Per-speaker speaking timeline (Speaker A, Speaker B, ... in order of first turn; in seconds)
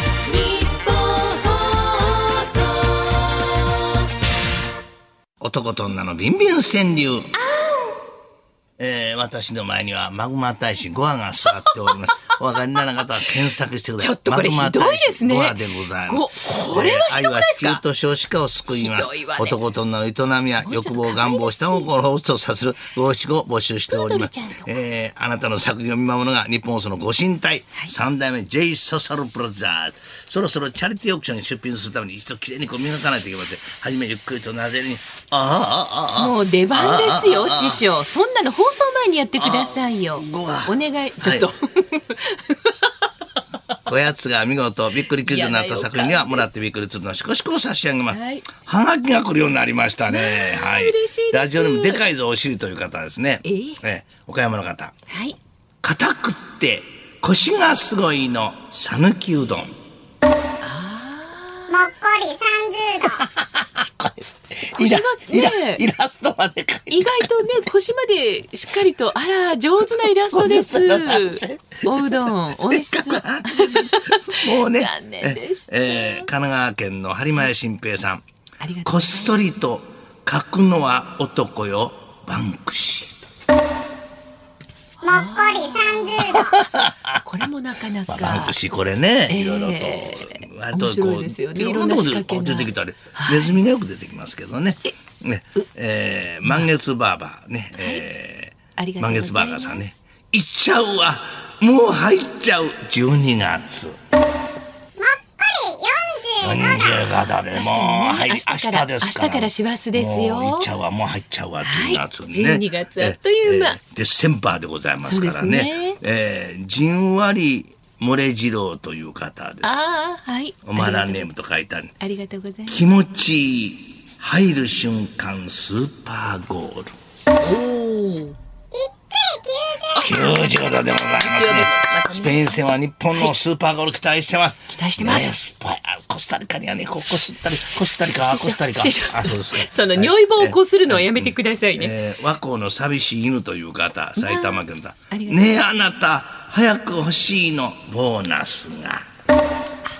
Speaker A: 0.2-3.8, 7.3-8.0, 14.0-17.8, 18.7-19.6, 20.6-21.9, 23.9-24.7, 36.1-42.9, 45.2-46.5, 48.1-48.5, 50.1-52.0, 53.4-53.8, 55.1-55.4, 60.6-61.9, 64.8-65.8, 66.9-76.3, 78.6-79.6, 85.0-86.6, 87.1-88.5, 89.3-93.5, 97.8-98.0, 98.8-100.0, 107.3-110.7, 111.6-113.8, 115.0-116.0, 119.6-121.3, 122.0-122.8, 127.4-128.4, 129.9-130.5, 131.2-133.3, 134.7-135.4, 138.2-141.9, 144.2-145.4
Speaker B: 5.4-7.3, 8.8-37.8, 39.4-41.5, 43.9-54.9, 55.8-59.7, 63.1-67.5, 70.3-78.2, 78.8-83.2, 86.2-87.2, 88.1-104.0, 106.4-119.8, 120.7-121.9, 122.7-126.9, 130.0-149.0
Speaker C: 61.7-63.2, 85.0-86.5, 105.0-106.9, 128.7-130.0